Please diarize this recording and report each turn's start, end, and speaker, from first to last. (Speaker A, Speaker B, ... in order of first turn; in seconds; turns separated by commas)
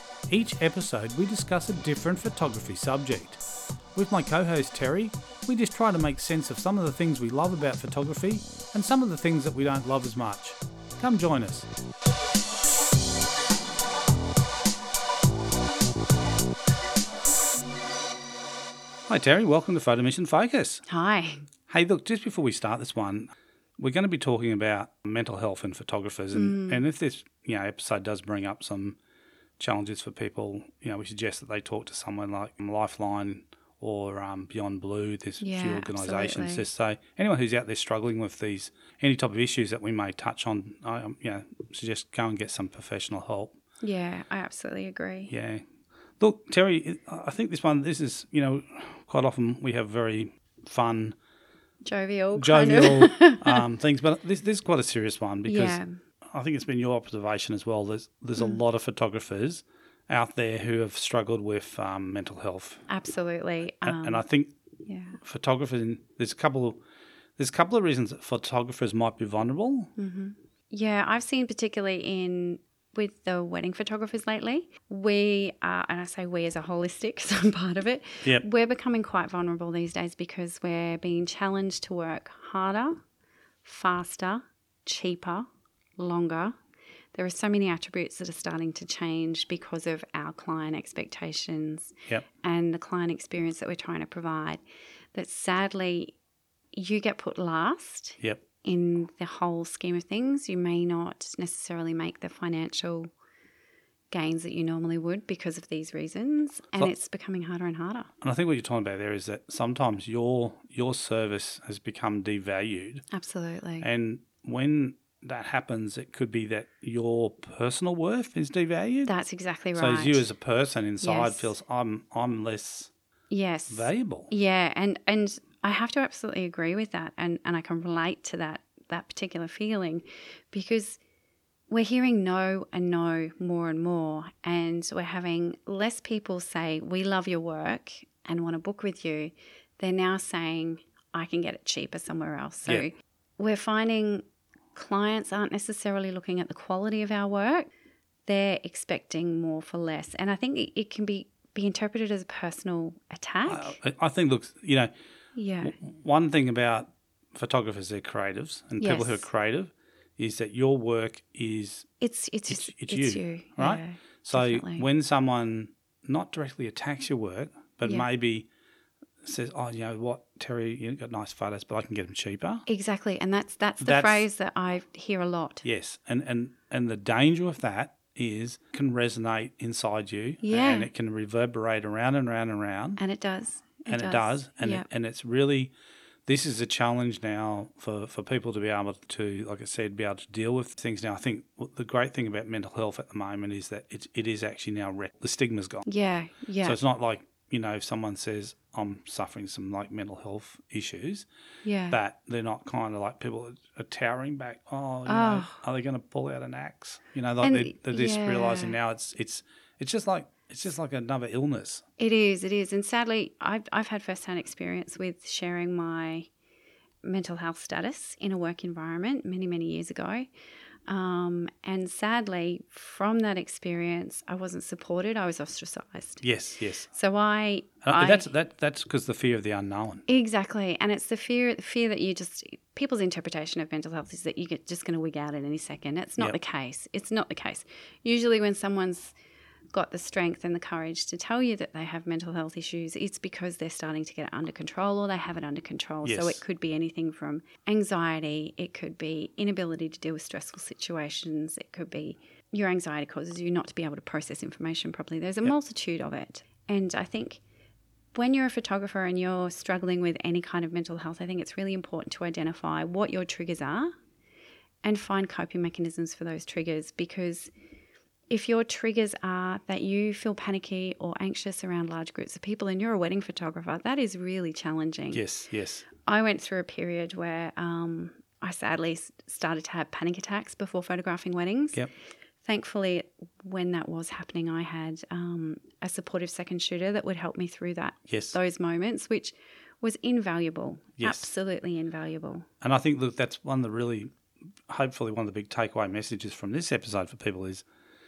Speaker A: 0.3-3.4, Speaker A: 4.0-11.7, Speaker A: 19.1-20.8, Speaker B: 20.9-21.4, Speaker A: 21.7-29.0, Speaker B: 26.3-26.8, Speaker A: 29.6-43.6, Speaker B: 35.4-36.6, Speaker B: 43.8-45.3, Speaker A: 45.3-45.7, Speaker A: 46.2-51.2, Speaker B: 51.8-53.6, Speaker A: 52.4-62.9, Speaker B: 55.5-56.0, Speaker B: 62.9-64.2, Speaker A: 63.8-64.5, Speaker B: 64.9-65.2, Speaker A: 65.2-66.8, Speaker A: 67.4-69.9, Speaker B: 70.0-83.0, Speaker B: 83.7-86.6, Speaker B: 87.1-94.6, Speaker B: 95.1-96.2, Speaker B: 96.7-103.1, Speaker B: 104.1-108.1, Speaker A: 108.2-113.0, Speaker B: 113.1-113.9, Speaker A: 113.8-119.1, Speaker B: 119.1-120.2, Speaker A: 119.8-122.9, Speaker B: 121.0-121.5, Speaker B: 123.3-131.0, Speaker A: 123.7-124.3, Speaker B: 131.7-144.2, Speaker B: 144.8-147.7, Speaker B: 148.3-153.8, Speaker A: 153.5-154.9, Speaker B: 155.3-155.7, Speaker A: 155.6-161.9, Speaker B: 158.8-159.2, Speaker B: 162.0-164.9, Speaker A: 162.5-168.5, Speaker A: 169.2-172.7, Speaker B: 172.7-175.7, Speaker A: 173.8-174.3, Speaker A: 175.6-183.0, Speaker B: 180.4-180.9, Speaker B: 183.0-184.9, Speaker A: 183.9-185.7, Speaker A: 186.3-195.9, Speaker B: 195.9-196.8, Speaker A: 196.6-201.3, Speaker B: 201.6-202.0, Speaker A: 201.9-211.8, Speaker B: 205.1-205.6, Speaker B: 207.4-208.8, Speaker B: 212.0-216.3, Speaker B: 217.0-220.3, Speaker B: 220.9-226.2, Speaker A: 226.2-226.9, Speaker B: 226.9-228.3, Speaker A: 227.8-230.1, Speaker B: 230.1-239.1, Speaker B: 239.7-257.4, Speaker A: 246.0-246.4, Speaker B: 258.1-263.9, Speaker B: 264.8-267.5, Speaker B: 268.3-275.2, Speaker A: 275.1-275.9, Speaker B: 276.0-281.9, Speaker B: 282.4-292.5, Speaker A: 288.1-288.4, Speaker A: 291.0-291.3, Speaker A: 292.6-294.1, Speaker A: 294.7-297.7